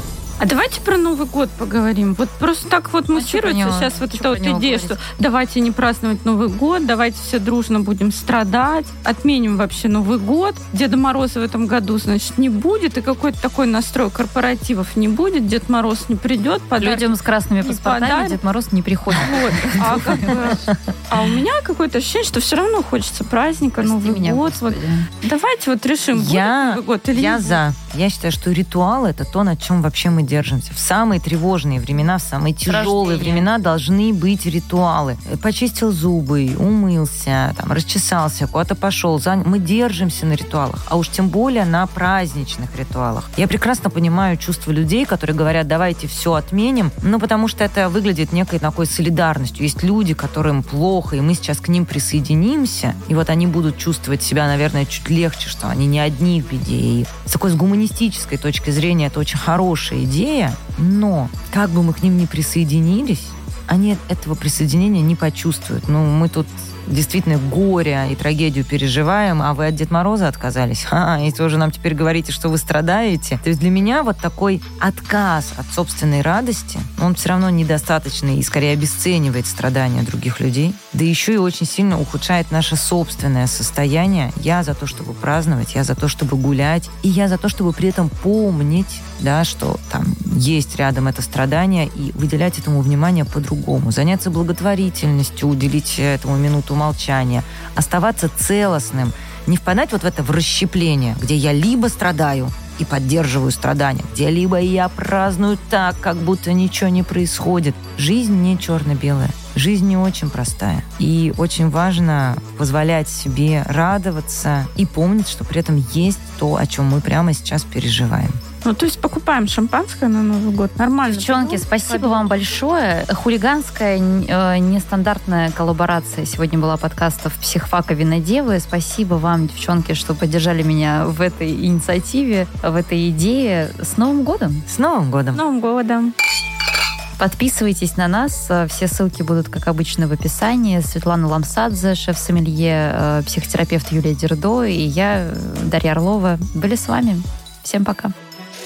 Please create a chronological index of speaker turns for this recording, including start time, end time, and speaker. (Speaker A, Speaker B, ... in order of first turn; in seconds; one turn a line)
Speaker A: 0.4-18.4
Speaker B: 3.1-5.0
Speaker B: 16.8-20.6
Speaker A: 19.1-27.6
Speaker B: 23.8-25.1
Speaker C: 26.1-118.4
Speaker B: 32.7-33.5
Speaker A: 118.6-122.2
Speaker B: 121.1-134.6
Speaker C: 134.7-135.4
Speaker A: 135.3-136.1
Speaker B: 137.2-148.1